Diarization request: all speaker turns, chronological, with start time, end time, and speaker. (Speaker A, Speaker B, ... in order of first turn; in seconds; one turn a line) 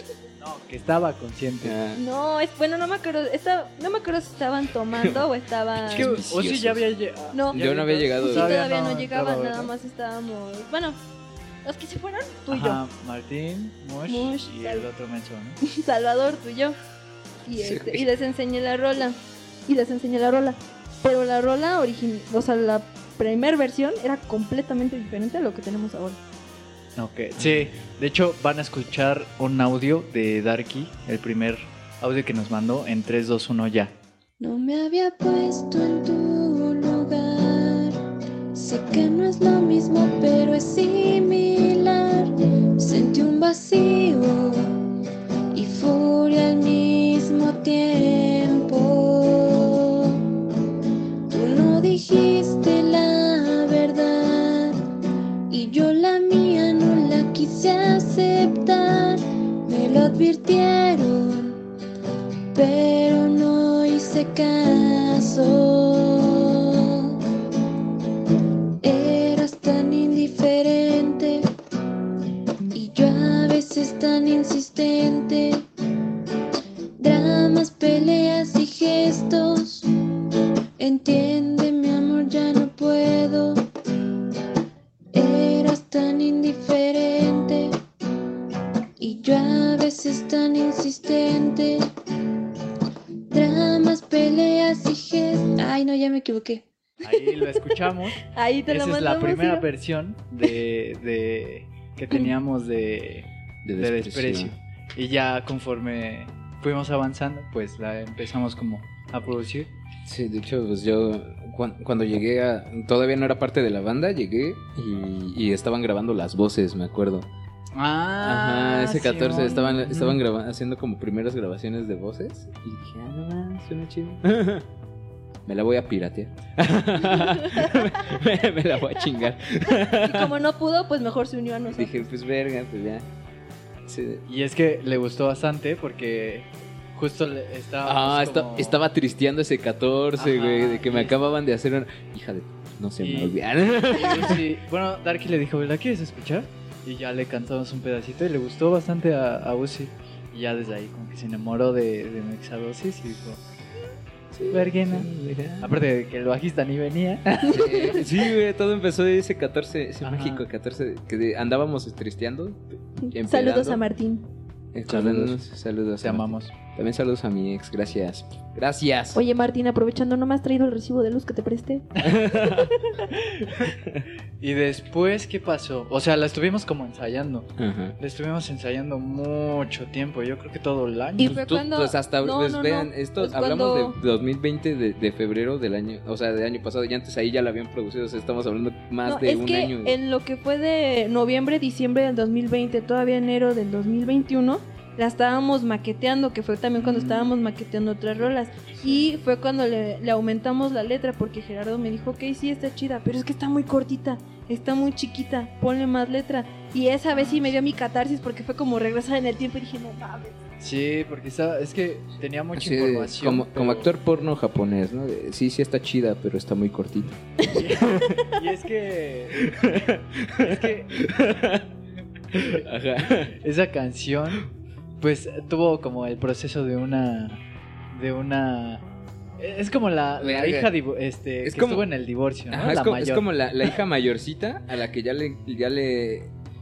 Speaker A: 0.4-1.8
Speaker B: 1.6-2.0
Speaker C: 1.9-6.1
Speaker B: 5.0-5.2
Speaker B: 5.8-6.8
Speaker A: 5.9-9.7
Speaker C: 7.3-7.6
Speaker B: 7.5-8.6
Speaker C: 8.2-11.0
Speaker C: 11.6-12.8
Speaker A: 12.5-15.6
Speaker C: 14.1-14.9
Speaker C: 15.7-16.8
Speaker C: 17.4-26.2
Speaker B: 17.6-18.1
Speaker A: 26.9-34.0
Speaker D: 34.4-38.0
Speaker D: 38.5-44.9
Speaker D: 45.5-50.3
Speaker D: 51.3-54.8
Speaker D: 55.5-61.6
Speaker D: 62.5-67.2
Speaker D: 68.8-71.5
Speaker D: 72.7-75.7
Speaker D: 77.0-79.9
Speaker D: 80.8-83.6
Speaker D: 85.1-87.8
Speaker D: 89.0-91.8
Speaker D: 93.3-96.7
Speaker A: 97.0-109.7
Speaker C: 98.2-99.7
Speaker B: 103.6-104.5
Speaker B: 110.0-117.3
Speaker A: 117.7-120.2
Speaker B: 118.2-124.6
Speaker B: 125.5-130.3
Speaker C: 129.7-132.1
Speaker B: 131.7-133.1
Speaker B: 133.9-134.2
Speaker A: 134.2-138.8
Speaker B: 137.8-144.4
Speaker A: 140.2-141.2
Speaker A: 143.0-143.4
Speaker A: 143.9-153.4
Speaker B: 154.3-155.8
Speaker A: 154.5-155.1
Speaker A: 155.6-158.1
Speaker B: 157.4-163.8
Speaker A: 160.0-160.5
Speaker C: 163.0-164.2
Speaker B: 164.7-169.2
Speaker A: 164.9-165.2
Speaker A: 166.0-166.5
Speaker C: 169.1-171.9
Speaker B: 172.0-172.7
Speaker C: 172.4-173.1
Speaker A: 173.2-173.5
Speaker B: 173.7-174.0
Speaker A: 174.4-181.3
Speaker B: 177.6-177.9
Speaker C: 181.2-184.0
Speaker B: 181.2-189.9
Speaker C: 189.0-210.4
Speaker A: 196.8-197.3
Speaker A: 198.8-199.1
Speaker A: 207.1-207.6
Speaker A: 210.6-213.9
Speaker B: 212.6-217.2
Speaker A: 217.4-219.8
Speaker B: 217.9-218.2
Speaker B: 219.3-221.7
Speaker A: 220.4-221.1
Speaker B: 222.3-223.3
Speaker A: 222.3-222.6
Speaker A: 223.3-224.5
Speaker A: 225.0-228.8
Speaker A: 229.4-233.3
Speaker B: 230.2-230.7
Speaker B: 231.4-231.9
Speaker B: 232.5-236.3